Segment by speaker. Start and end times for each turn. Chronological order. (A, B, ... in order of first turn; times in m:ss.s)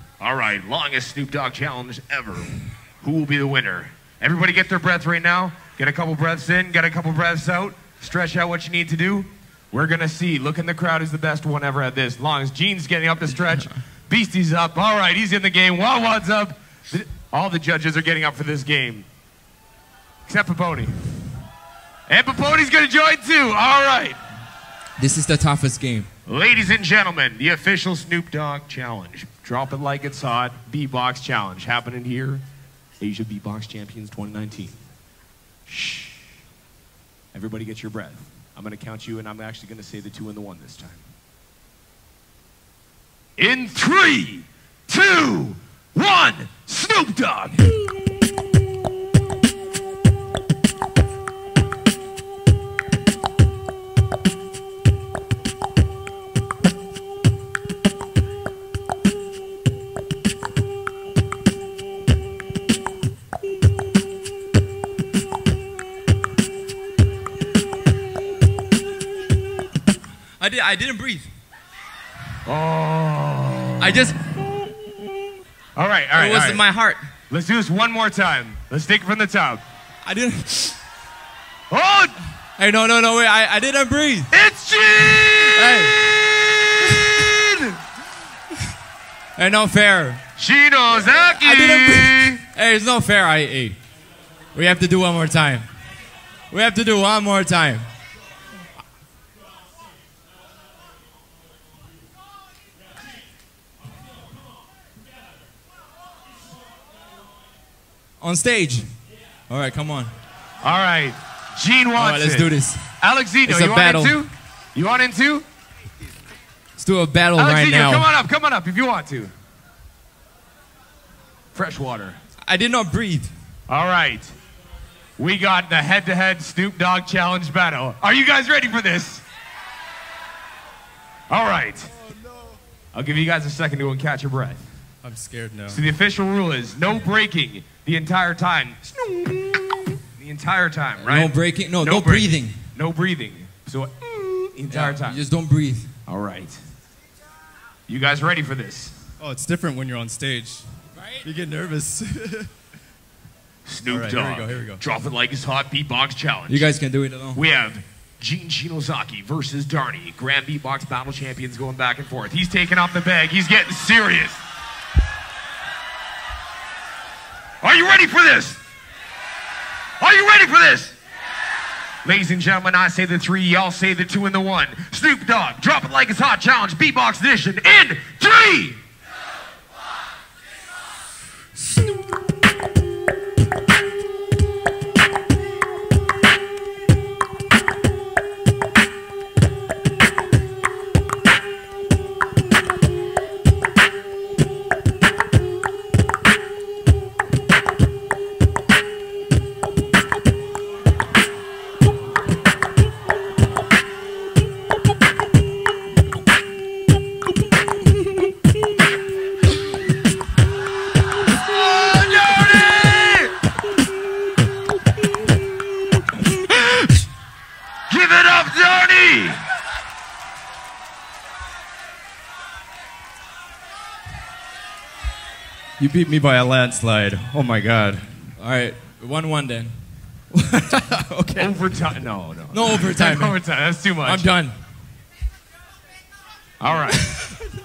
0:00.2-0:19.1 A
0:20.3-0:21.0 A
0:22.1-0:24.2 A
0:25.0-0:26.1 B
0:26.3-0:32.4 A
0:33.0-0:34.8 A
0:35.7-0:36.2 A
0:37.3-0:41.0 A
0:43.4-0:47.6 A
1:10.4-1:11.3 B
1:12.4-1:14.1 A
1:13.8-1:14.2 B
1:15.8-1:16.6 A
1:16.2-1:17.0 B
1:17.3-1:19.6 A
1:20.0-1:20.8 B
1:21.7-1:22.2 A
1:22.6-1:24.3 B
1:24.3-1:27.7 A
1:25.5-1:26.0 B
1:29.4-1:30.2 B
1:30.4-1:32.4 A
1:31.0-1:33.8 B
1:34.5-1:35.7 B
1:36.5-1:37.9 B
1:48.2-1:50.1 B
1:50.6-1:55.4 A
1:52.0-1:54.2 B
1:56.8-1:58.1 B
1:57.4-1:59.3 A
2:01.5-2:02.2 A
2:02.5-2:03.3 B
2:03.7-2:04.3 A
2:05.2-2:09.2 A
2:11.3-2:11.9 A
2:12.1-2:12.6 C
2:12.9-2:14.7 A
2:15.0-2:15.8 C
2:15.7-2:19.0 A
2:20.1-2:25.2 A
2:21.0-2:22.7 B
2:24.7-2:25.9 B
2:26.1-2:26.6 A
2:27.9-2:29.0 A
2:29.2-2:32.5 C
2:33.6-2:36.7 A
2:33.9-2:34.8 C
2:36.5-2:37.4 B
2:37.3-2:44.4 A
2:47.6-2:48.6 A
2:50.0-2:51.0 A
2:52.0-2:58.8 A
3:31.3-3:33.3 A
3:37.9-3:39.4 A
3:45.8-3:48.2 C
3:48.4-3:49.8 B
3:50.3-3:51.5 C
3:51.4-3:54.3 A
3:52.5-3:53.4 B
3:54.0-3:54.6 B
3:56.6-3:57.1 A